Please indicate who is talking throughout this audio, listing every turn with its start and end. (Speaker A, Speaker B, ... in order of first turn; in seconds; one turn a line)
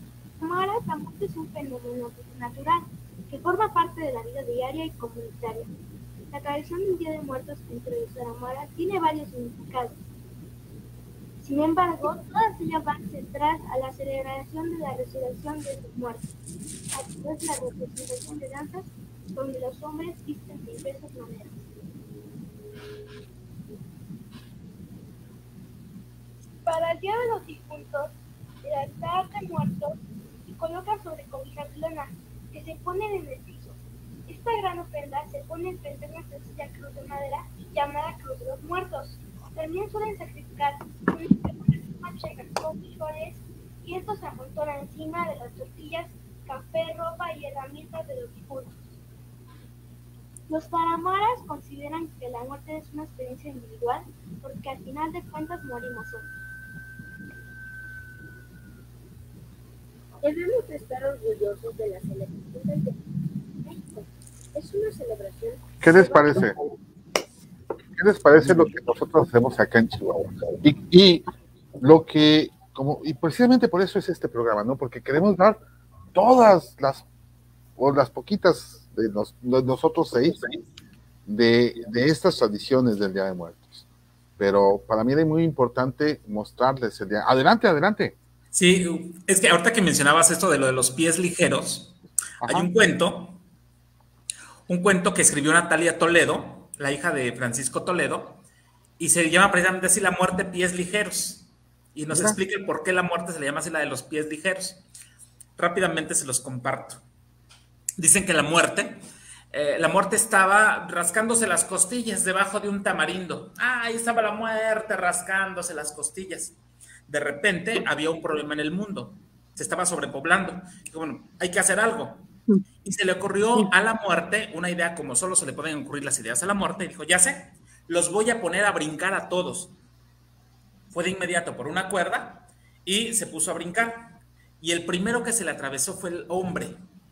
Speaker A: 0.4-5.8
Speaker A: 6.3-10.0
Speaker A: 11.4-16.3
Speaker A: 16.9-21.6
Speaker A: 26.6-28.1
Speaker A: 28.6-30.0
Speaker A: 30.5-48.9
Speaker A: 50.5-56.3
Speaker B: 60.2-62.9
Speaker A: 64.6-66.2
Speaker B: 64.8-65.5
Speaker C: 65.8-66.5
Speaker C: 68.0-71.2
Speaker C: 71.8-75.6
Speaker C: 76.1-77.1
Speaker C: 77.8-80.6
Speaker C: 81.3-83.8
Speaker C: 84.4-88.2
Speaker D: 88.5-93.4
Speaker C: 92.4-92.7
Speaker D: 94.7-98.4
Speaker D: 99.0-104.8
Speaker C: 102.1-102.4
Speaker D: 105.6-107.0
Speaker D: 108.0-109.0
Speaker D: 109.5-116.6
Speaker D: 117.1-122.3
Speaker D: 122.8-129.7
Speaker D: 130.9-136.8